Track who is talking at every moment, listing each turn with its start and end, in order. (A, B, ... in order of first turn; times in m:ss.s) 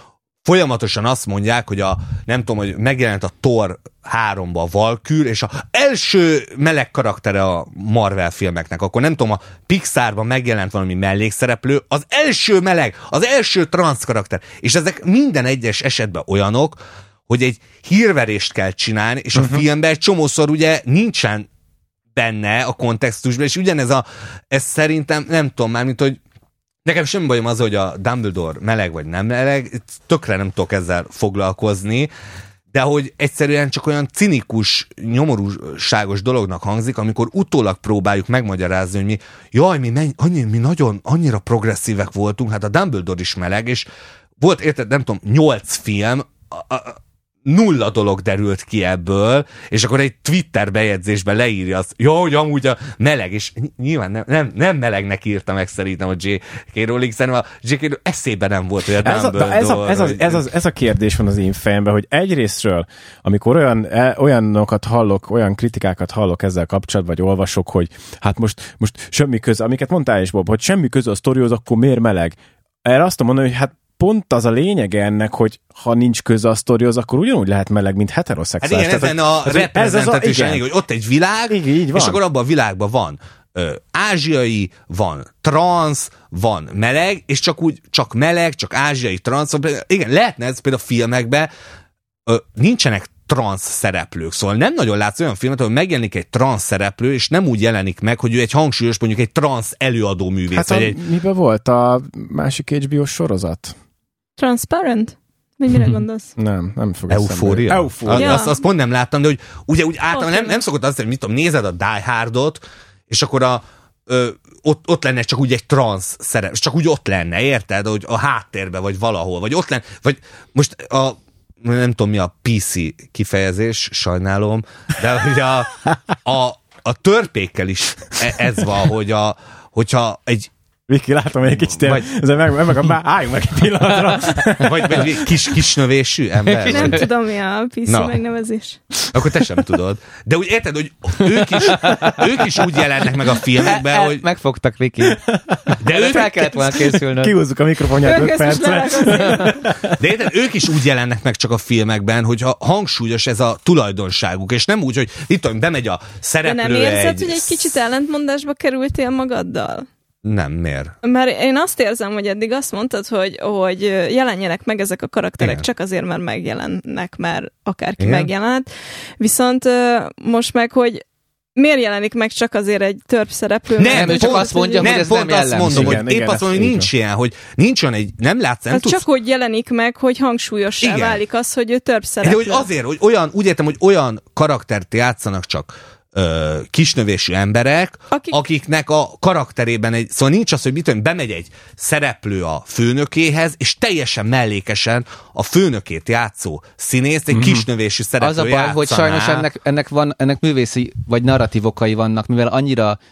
0:00.4-0:21.5 A
0:22.2-0:26.2 A
0:26.8-0:32.1 A
0:32.7-0:43.9 A
0:44.4-1:00.4 A
0:59.0-1:20.6 B
1:18.6-1:31.5 A
1:21.5-1:22.2 B
1:32.3-1:41.0 A
1:40.5-1:43.8 B
1:44.4-1:46.3 C
1:46.4-1:48.4 B
1:47.1-2:10.5 A
1:48.1-1:48.6 C
1:50.1-1:50.6 C
2:10.9-2:15.4 B
2:11.5-2:12.1 A
2:14.6-2:17.1 A
2:16.5-2:17.1 D
2:16.7-2:18.8 C
2:17.9-2:18.2 A
2:19.1-2:24.2 A
2:21.6-2:22.2 D
2:23.6-2:25.2 D
2:25.1-2:30.0 B
2:25.8-2:26.5 A
2:25.9-2:27.4 D
2:28.0-2:29.6 C
2:29.9-2:37.8 A
2:36.4-2:39.9 C
2:40.2-2:40.9 A
2:41.0-2:48.7 C
2:45.4-2:45.6 A
2:48.0-2:48.3 A
2:49.2-2:51.0 C
2:51.6-2:55.0 C
2:53.8-2:59.0 A
2:53.9-2:56.0 D
2:55.6-2:56.9 B
2:58.7-3:02.7 C
3:00.8-3:01.2 A
3:02.2-3:19.5 A
3:08.1-3:08.4 C
3:17.3-3:17.6 B
3:18.2-3:23.0 D